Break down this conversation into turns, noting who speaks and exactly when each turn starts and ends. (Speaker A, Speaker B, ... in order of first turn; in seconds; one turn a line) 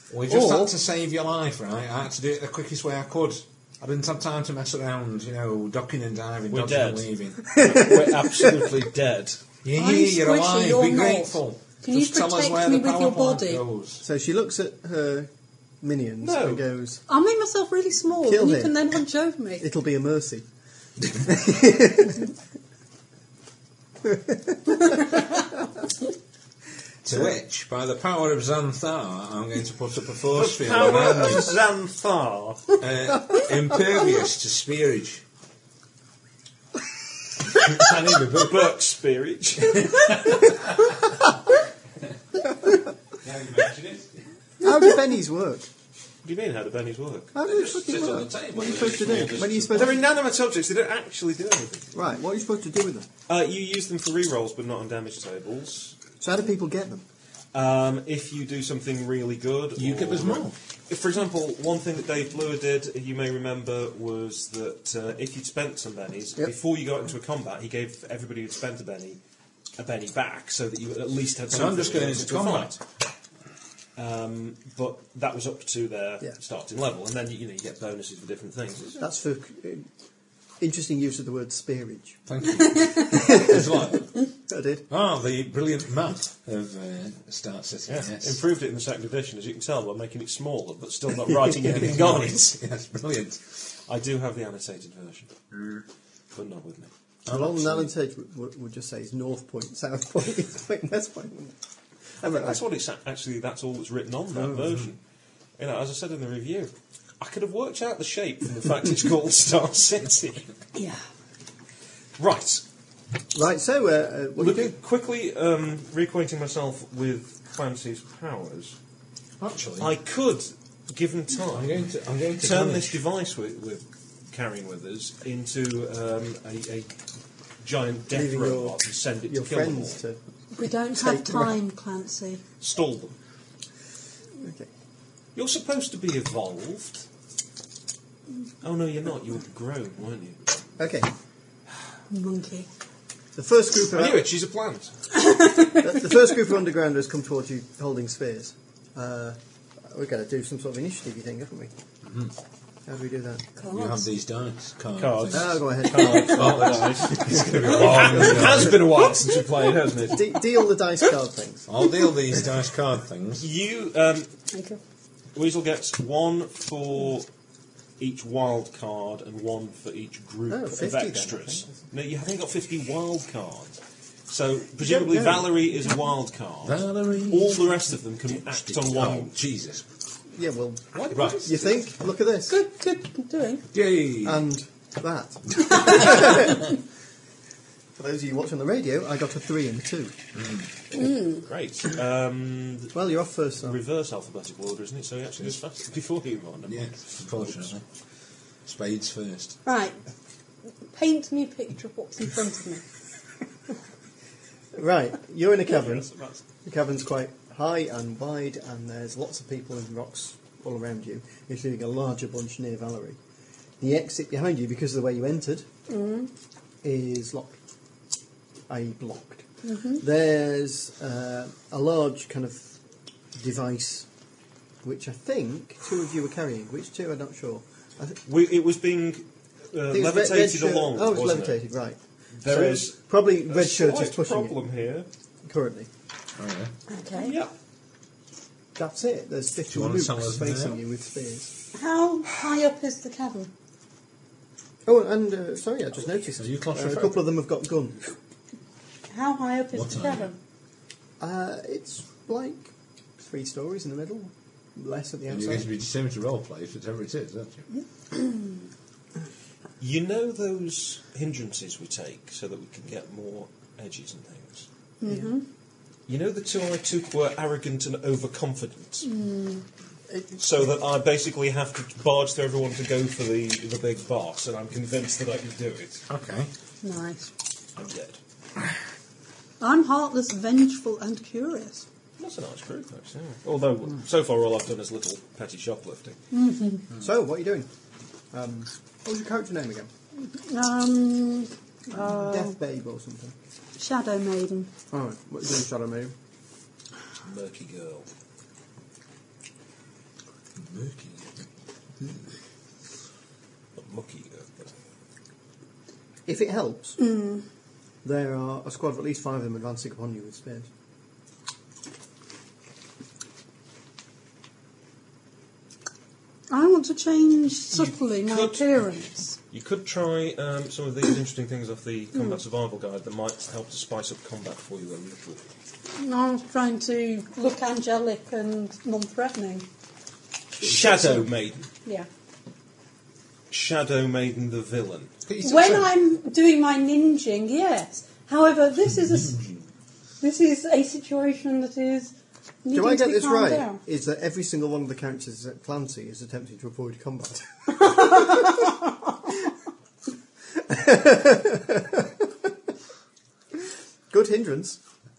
Speaker A: 0.1-7.5
Speaker B: 0.3-0.7
Speaker B: 6.5-9.4
Speaker C: 7.5-8.5
Speaker A: 9.6-14.0
Speaker D: 9.8-13.6
Speaker C: 14.0-15.3
Speaker C: 15.8-17.0
Speaker B: 16.2-16.6
Speaker D: 17.1-19.6
Speaker C: 18.2-18.8
Speaker C: 19.6-20.5
Speaker C: 21.1-22.3
Speaker C: 24.0-25.6
Speaker A: 27.0-31.5
Speaker C: 27.1-27.4
Speaker B: 30.3-32.8
Speaker A: 32.8-35.2
Speaker B: 37.5-40.5
Speaker A: 39.9-41.1
Speaker A: 43.1-44.2
Speaker C: 44.6-45.7
Speaker B: 46.2-47.4
Speaker C: 47.3-50.0
Speaker A: 47.4-50.0
Speaker B: 48.8-52.0
Speaker C: 51.9-53.1
Speaker B: 53.3-56.0
Speaker C: 56.2-57.0
Speaker B: 57.5-69.2
Speaker A: 59.8-60.5
Speaker B: 69.8-72.8
Speaker A: 71.5-72.7
Speaker B: 74.0-79.0
Speaker C: 79.0-79.9
Speaker C: 80.6-82.2
Speaker A: 82.2-84.3
Speaker C: 83.1-83.9
Speaker C: 84.5-84.8
Speaker A: 84.9-88.4
Speaker B: 87.9-92.6
Speaker A: 91.5-93.6
Speaker B: 93.8-95.3
Speaker B: 96.3-96.9
Speaker A: 97.2-97.9
Speaker C: 97.3-101.5
Speaker C: 102.2-102.6
Speaker B: 102.2-105.0
Speaker C: 104.3-104.8
Speaker B: 105.6-110.5
Speaker D: 110.7-111.0
Speaker B: 112.2-112.6
Speaker C: 113.3-114.7
Speaker B: 114.3-118.8
Speaker A: 119.4-119.9
Speaker B: 119.8-121.8
Speaker A: 121.5-123.0
Speaker B: 122.3-126.9
Speaker B: 127.6-130.0
Speaker C: 128.1-130.2
Speaker D: 130.5-132.4
Speaker C: 130.9-131.6
Speaker B: 132.6-133.2
Speaker C: 134.4-134.7
Speaker B: 135.3-137.1
Speaker B: 138.6-140.4
Speaker C: 140.8-141.1
Speaker D: 142.1-142.7
Speaker C: 143.3-144.3
Speaker B: 143.9-144.9
Speaker D: 145.1-146.1
Speaker C: 145.7-151.7
Speaker A: 152.0-152.3
Speaker C: 152.8-153.5
Speaker D: 153.6-154.1
Speaker A: 153.7-158.9
Speaker B: 155.0-160.3
Speaker C: 155.3-158.9
Speaker C: 160.0-161.7
Speaker A: 161.7-163.5
Speaker B: 163.4-164.3
Speaker D: 164.5-164.8
Speaker B: 165.3-167.3
Speaker B: 168.0-173.8
Speaker C: 170.5-171.8
Speaker B: 174.3-179.3
Speaker C: 174.8-175.5
Speaker A: 176.6-177.7
Speaker A: 178.3-179.9
Speaker C: 180.3-182.6
Speaker B: 180.9-181.8
Speaker A: 181.1-181.5
Speaker D: 182.5-183.6
Speaker A: 183.7-184.4
Speaker C: 184.2-186.7
Speaker C: 187.9-190.1
Speaker A: 190.3-190.7
Speaker D: 190.9-191.4
Speaker B: 190.9-193.0
Speaker C: 192.9-193.8
Speaker B: 193.6-197.7
Speaker A: 196.6-197.8
Speaker A: 198.6-199.6
Speaker D: 199.6-200.0
Speaker D: 200.9-202.9
Speaker C: 204.7-206.1
Speaker B: 205.7-206.4
Speaker C: 206.6-213.2
Speaker C: 213.8-215.7
Speaker D: 215.9-216.3
Speaker C: 216.8-217.6
Speaker C: 218.7-222.8
Speaker D: 219.6-220.0
Speaker C: 223.3-224.1
Speaker C: 224.8-228.2
Speaker B: 228.2-231.6
Speaker C: 229.9-234.6
Speaker B: 232.3-235.1
Speaker C: 235.4-235.9
Speaker A: 236.4-236.7
Speaker D: 236.9-237.4
Speaker B: 237.2-237.5
Speaker C: 238.8-241.5
Speaker A: 239.7-240.8
Speaker D: 241.7-243.5
Speaker C: 244.8-248.1
Speaker A: 246.3-247.3
Speaker D: 249.1-250.4
Speaker A: 249.7-250.3
Speaker C: 251.2-255.7
Speaker A: 255.3-257.6
Speaker D: 257.7-258.6
Speaker B: 259.8-264.7
Speaker D: 265.0-265.4
Speaker C: 265.0-265.3
Speaker B: 266.1-269.1
Speaker D: 269.0-269.6
Speaker C: 270.1-270.4
Speaker B: 270.4-276.1
Speaker A: 276.1-276.5
Speaker D: 276.8-277.3
Speaker B: 277.8-278.2
Speaker D: 279.6-281.9
Speaker B: 282.2-286.2
Speaker D: 286.3-286.9
Speaker C: 286.9-287.7
Speaker C: 288.3-289.9
Speaker D: 290.2-292.6
Speaker C: 291.9-293.4
Speaker D: 293.8-294.7
Speaker C: 294.9-296.1
Speaker B: 297.2-298.1
Speaker A: 300.5-301.5
Speaker B: 303.8-304.7
Speaker C: 306.2-307.0
Speaker D: 307.0-307.4
Speaker C: 308.0-310.7
Speaker D: 316.5-319.4
Speaker B: 317.7-318.6
Speaker B: 319.5-325.4
Speaker D: 325.9-329.7
Speaker A: 330.6-331.3
Speaker B: 330.6-331.6
Speaker B: 333.5-335.1
Speaker A: 335.2-335.9
Speaker D: 335.4-339.4
Speaker A: 339.1-339.7
Speaker D: 340.2-343.8
Speaker C: 342.7-348.6
Speaker D: 347.8-348.7
Speaker C: 350.5-352.5
Speaker C: 354.1-354.8